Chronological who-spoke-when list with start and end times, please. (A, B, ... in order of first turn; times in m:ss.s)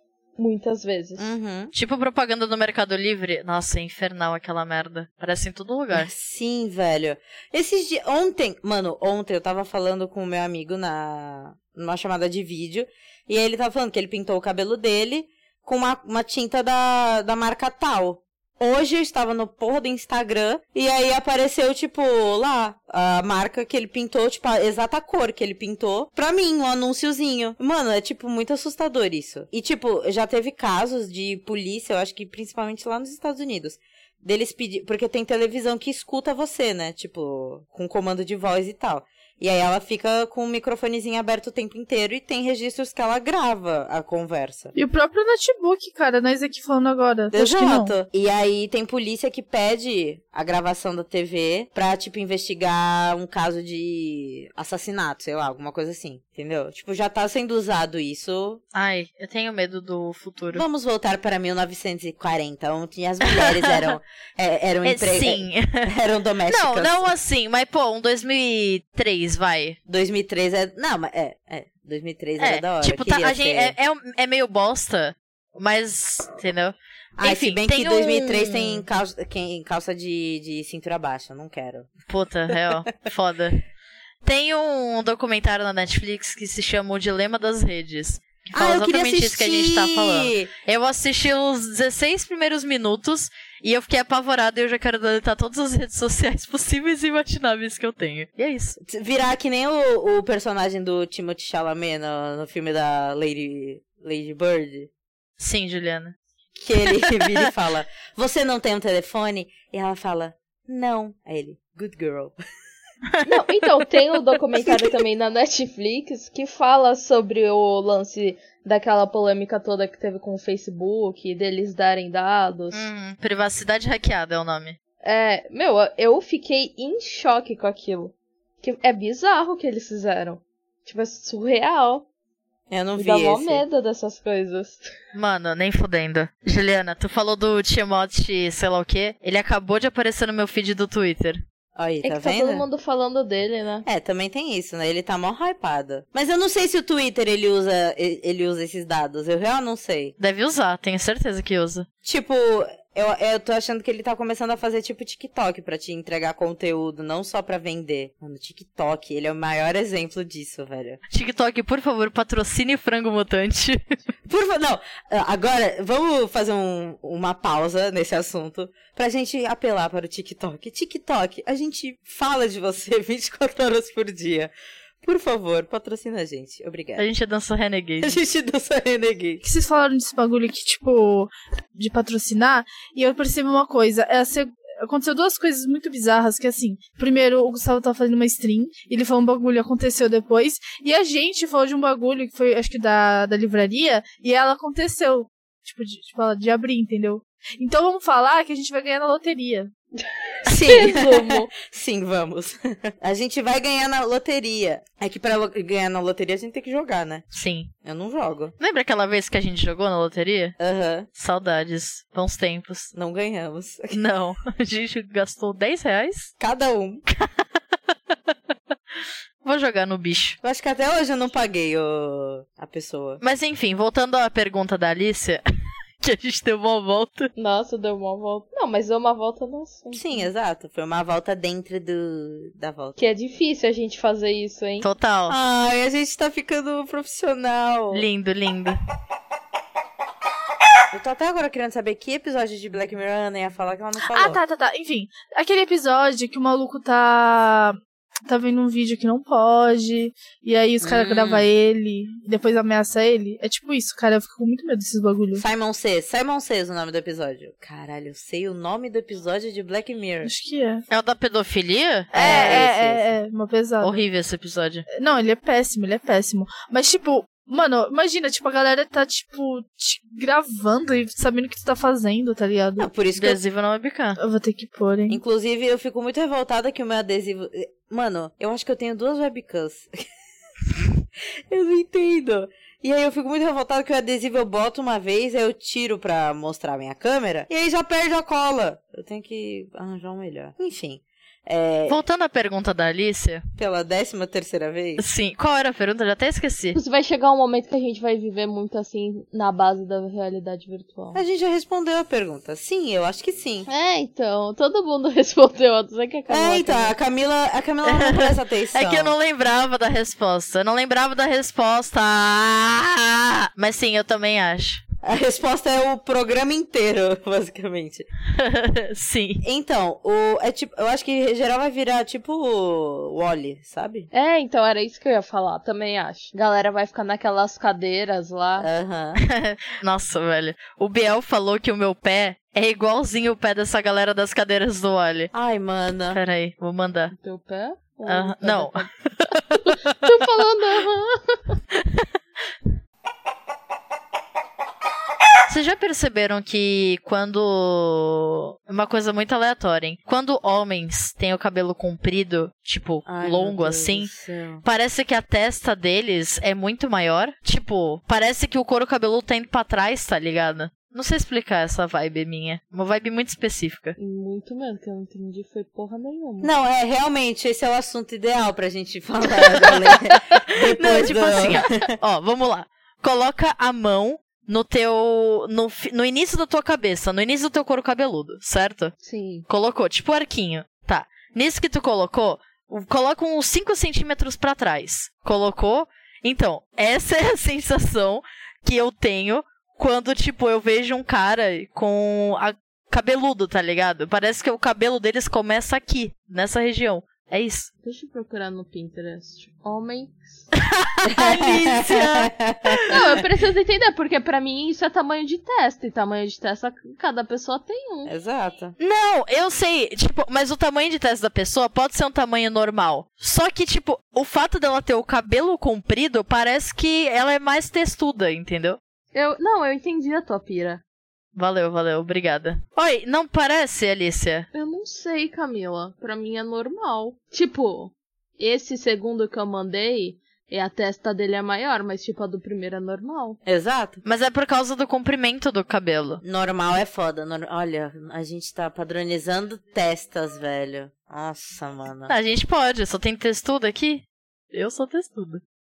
0:00.4-0:01.3 A
0:01.2-0:01.7 B
0:01.7-0:06.1 C
0:05.9-0:44.7 B
0:44.7-0:47.9 D
0:47.3-0:58.6 B
0:58.7-1:00.6 C
1:00.5-1:07.1 B
1:03.2-1:04.0 C
1:04.8-1:05.9 C
1:06.5-1:09.8 C
1:09.9-1:13.7 B
1:12.4-1:18.8 C
1:17.2-1:21.9 B
1:22.1-1:23.6 C
1:24.2-1:38.8 C
1:28.5-1:30.5 B
1:38.8-1:44.9 B
1:45.4-1:46.2 C
1:46.6-1:52.3 B
1:53.1-1:53.6 C
1:53.2-2:02.9 A
1:54.6-1:54.9 C
2:02.7-2:04.8 C
2:05.0-2:12.0 A
2:12.7-2:13.6 B
2:13.0-2:14.9 A
2:15.1-2:21.4 C
2:21.8-2:22.6 B
2:22.0-2:23.8 A
2:23.8-2:30.1 B
2:30.2-2:31.8 C
2:32.0-2:41.0 B
2:41.1-2:43.8 C
2:44.3-2:54.5 B
2:55.0-2:57.0 B
2:57.0-2:58.2 C
2:58.0-2:59.4 B
2:59.4-3:19.7 D
3:20.3-3:21.5 A
3:20.4-3:27.2 B
3:27.3-3:27.7 C
3:27.8-3:28.5 B
3:28.6-3:30.6 C
3:30.6-3:31.1 B
3:31.1-3:32.9 C
3:32.9-3:34.0 B
3:33.9-3:36.3 C
3:36.4-3:37.0 B
3:37.1-3:37.4 C
3:39.4-3:40.4 C
3:40.4-3:43.2 B
3:43.2-3:45.4 C
3:46.0-3:47.3 C
3:47.4-3:50.3 A
3:49.9-3:53.0 B
3:53.0-3:54.9 A
3:54.8-3:55.4 C
3:55.3-3:58.0 B
3:57.9-3:58.8 C
4:00.9-4:04.4 B
4:04.0-4:15.4 D
4:10.8-4:11.4 C
4:15.4-4:20.3 B
4:20.2-4:20.8 D
4:20.9-4:22.7 C
4:22.1-4:24.0 D
4:22.1-4:23.1 B
4:23.8-4:24.8 C
4:24.9-4:32.9 D
4:32.8-4:33.4 B
4:33.2-4:34.2 C
4:34.2-4:35.2 D
4:35.1-4:39.9 B
4:41.5-4:52.0 B
4:51.9-4:53.4 C
4:53.6-4:55.0 B
4:55.0-4:56.8 C
4:56.7-5:01.2 A
5:01.1-5:03.7 B
5:03.7-5:06.9 A
5:06.3-5:09.1 B
5:07.8-5:14.8 C
5:15.0-5:18.1 B
5:18.4-5:19.4 C
5:19.4-5:24.1 B
5:24.1-5:28.7 A
5:28.6-5:29.2 B
5:29.2-5:35.3 C
5:35.3-5:36.2 B
5:36.1-5:37.1 C
5:37.1-5:38.9 A
5:38.1-5:39.4 C
5:39.5-5:41.6 A
5:41.7-5:42.0 C
5:45.5-5:54.1 C
5:53.0-5:54.6 B
5:54.6-6:04.0 C
6:04.0-6:06.5 A
6:06.4-6:11.9 B
6:10.7-6:18.9 C
6:19.0-6:19.4 A
6:19.5-6:37.7 C
6:37.8-6:40.5 A
6:40.6-6:43.2 C
6:41.0-6:43.0 B
6:42.9-6:48.1 A
6:48.0-6:48.8 B
6:48.8-6:58.8 C
6:59.1-7:00.8 A
7:01.3-7:04.5 C
7:04.5-7:13.4 A
7:13.4-7:14.0 B
7:14.0-7:16.2 C
7:16.2-7:22.1 B
7:22.1-7:25.4 C